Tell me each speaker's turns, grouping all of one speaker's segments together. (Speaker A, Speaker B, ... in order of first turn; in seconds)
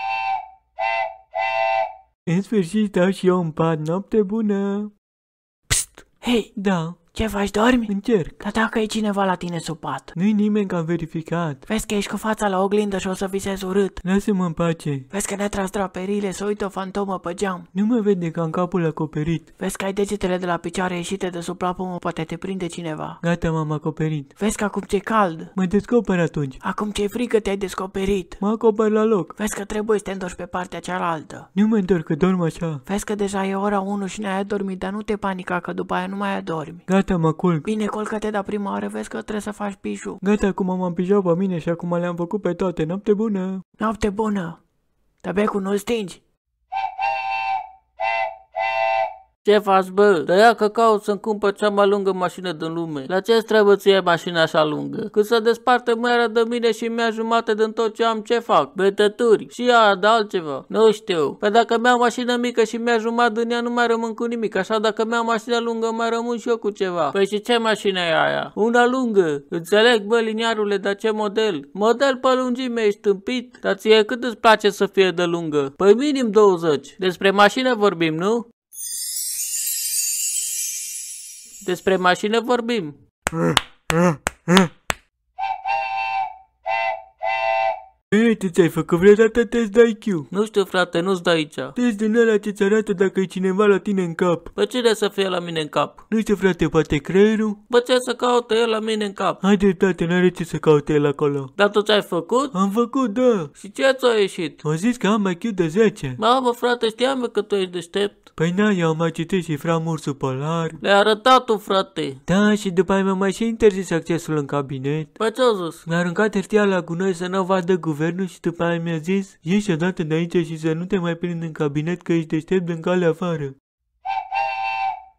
Speaker A: 2.3-4.9, 6.5-7.1, 7.9-8.4, 10.1-11.6, 14.0-15.1, 17.7-19.5, 23.2-24.3, 25.5-26.6, 28.4-29.3, 31.5-32.8, 36.9-37.6, 40.2-43.6, 83.4-84.2, 88.1-90.3, 91.8-94.5, 96.1-97.6, 99.4-101.5, 102.5-103.5, 104.6-106.2, 108.4-110.8, 112.3-115.2, 115.8-123.5
Speaker B: 5.7-6.5, 7.1-10.1, 11.7-14.0, 15.1-17.7, 19.6-23.2, 24.4-25.5, 26.6-28.4, 29.4-31.5, 32.9-36.8, 37.6-40.2, 43.8-44.6, 45.2-46.2
Speaker C: 49.5-78.4, 81.6-82.9, 90.3-91.7, 94.5-96.0, 97.7-99.4, 101.6-102.5, 103.5-104.6, 106.2-108.2, 110.8-112.2, 115.2-115.8